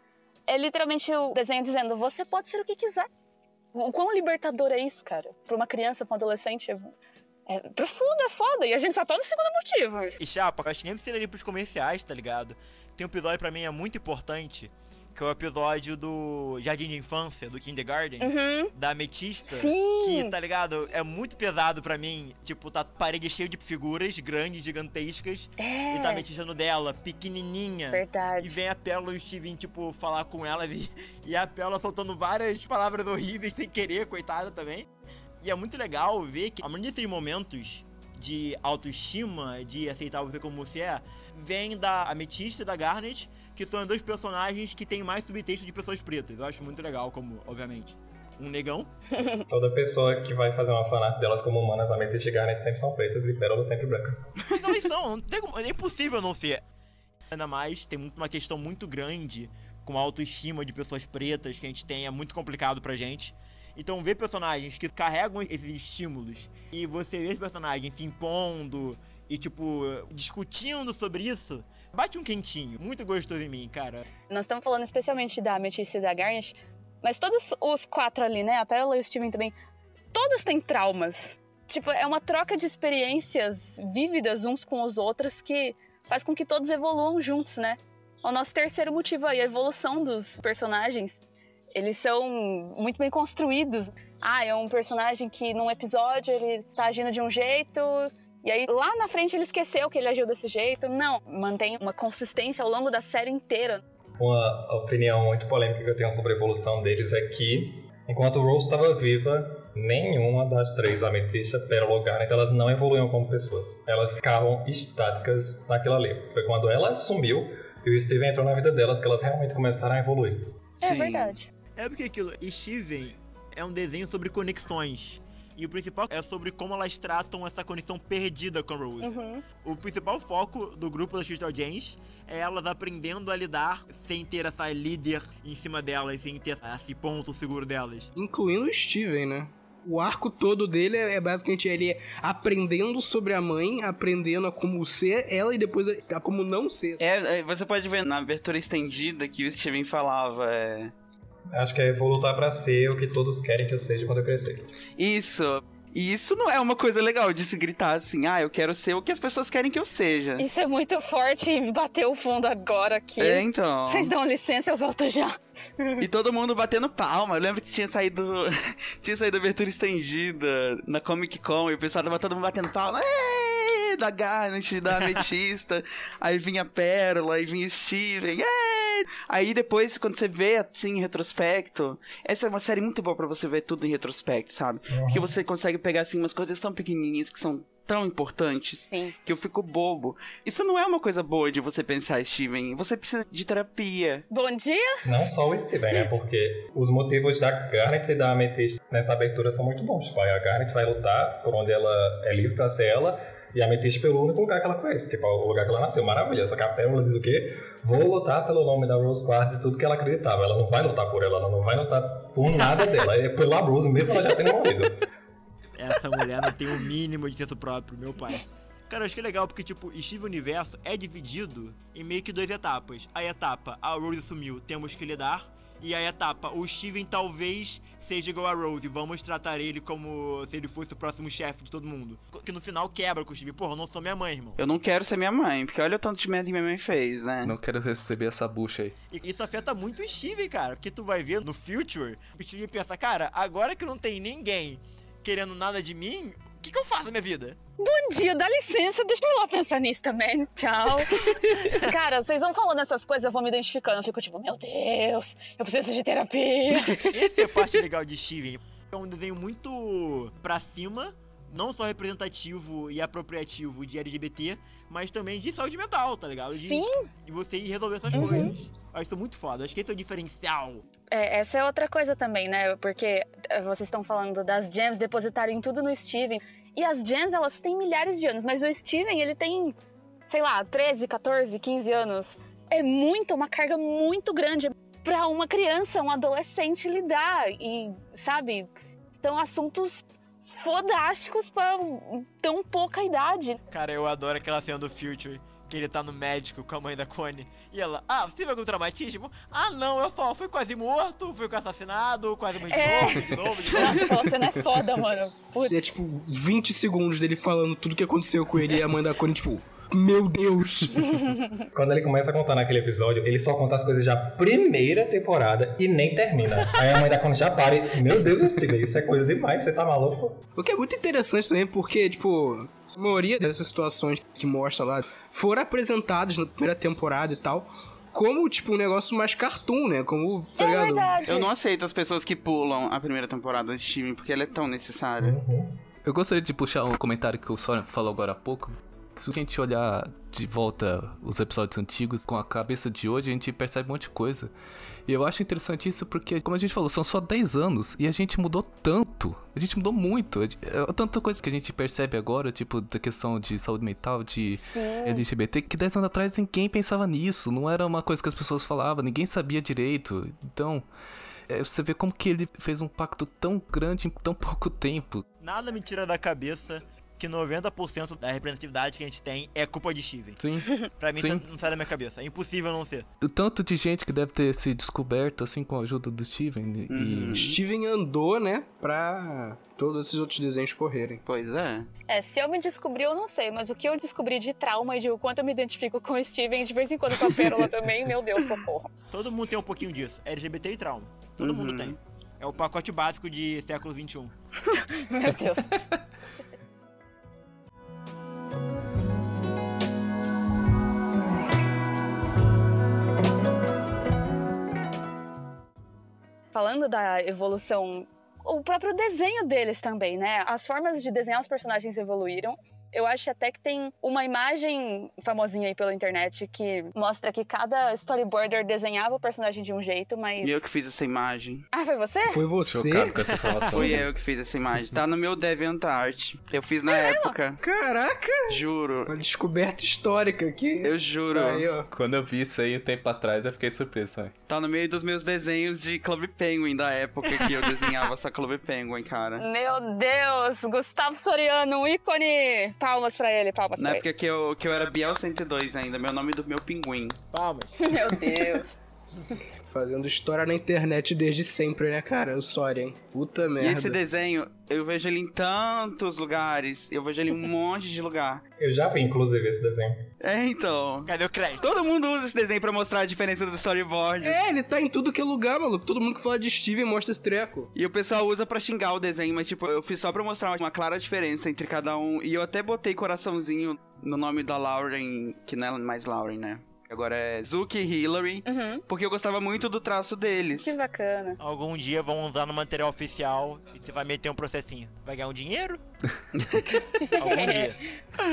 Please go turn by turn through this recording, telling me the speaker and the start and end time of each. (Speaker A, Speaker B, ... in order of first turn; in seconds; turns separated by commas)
Speaker A: 0.5-3.1, Speaker A: 3.7-6.9, Speaker A: 7.5-10.2, Speaker B: 10.2-34.9, Speaker A: 18.2-18.7, Speaker A: 19.5-20.3, Speaker A: 25.6-26.2, Speaker A: 27.9-28.6, Speaker B: 35.4-48.9, Speaker C: 49.4-54.2, Speaker B: 54.5-56.6, Speaker B: 57.3-74.0, Speaker A: 74.3-79.5, Speaker A: 80.1-91.2, Speaker A: 91.7-103.8, Speaker C: 104.2-120.5, Speaker A: 120.8-121.5, Speaker D: 120.8-121.3, Speaker B: 121.8-129.1, Speaker A: 129.0-129.4, Speaker B: 129.6-138.1, Speaker E: 138.2-147.0, Speaker D: 147.0-150.9, Speaker C: 151.5-154.7, Speaker D: 155.0-160.5, Speaker A: 160.4-166.0, Speaker D: 163.2-164.1, Speaker D: 166.0-194.2, Speaker C: 184.9-185.3, Speaker A: 188.8-189.1, Speaker A: 194.3-195.0, Speaker C: 195.0-215.0, Speaker B: 215.8-234.6, Speaker D: 234.6-237.6, Speaker F: 237.4-238.9, Speaker B: 239.1-247.6, Speaker A: 247.8-257.5, Speaker B: 251.2-251.8, Speaker B: 256.8-270.8, Speaker A: 266.5-267.1, Speaker A: 268.1-268.5, Speaker A: 271.1-279.8, Speaker A: 280.3-293.6, Speaker B: 293.7-304.2, Speaker A: 302.7-305.9, Speaker E: 305.7-311.3, Speaker A: 311.1-311.5, Speaker C: 311.7-320.4, Speaker E: 320.6-331.2, Speaker A: 330.6-331.5, Speaker D: 331.2-335.4, Speaker C: 335.2-335.8, Speaker F: 336.0-344.5, Speaker F: 345.1-360.8, Speaker A: 354.5-355.2, Speaker F: 361.5-365.2, Speaker B: 365.4-373.1, Speaker F: 370.4-371.4, Speaker F: 373.2-377.4, Speaker D: 376.9-377.6, Speaker E: 377.4-381.2, Speaker D: 381.2-381.9, Speaker A: 382.1-388.9, Speaker B: 389.1-394.3, Speaker D: 391.4-392.0, Speaker A: 394.7-395.8, Speaker A: 406.5-420.6, Speaker D: 420.4-421.7, Speaker A: 421.7-422.4, Speaker E: 422.3-424.0, Speaker F: 422.6-424.1, Speaker D: 423.7-427.6, Speaker A: 426.9-427.3, Speaker E: 427.6-431.9, Speaker D: 428.5-429.1, Speaker D: 430.8-431.7, Speaker F: 431.9-434.3, Speaker D: 434.5-439.4, Speaker B: 437.2-437.9, Speaker A: 439.4-444.1, Speaker D: 443.8-447.2, Speaker B: 447.3-448.0, Speaker A: 447.8-448.7, Speaker E: 449.6-454.0, Speaker D: 453.6-458.4, Speaker C: 458.6-460.0, Speaker D: 460.2-464.4, Speaker B: 461.1-461.6, Speaker E: 464.2-467.7, Speaker D: 467.7-480.7, Speaker A: 478.4-478.8, Speaker A: 480.6-481.4, Speaker B: 481.4-485.8, Speaker D: 486.4-486.8, Speaker A: 486.9-487.7, Speaker B: 487.1-487.8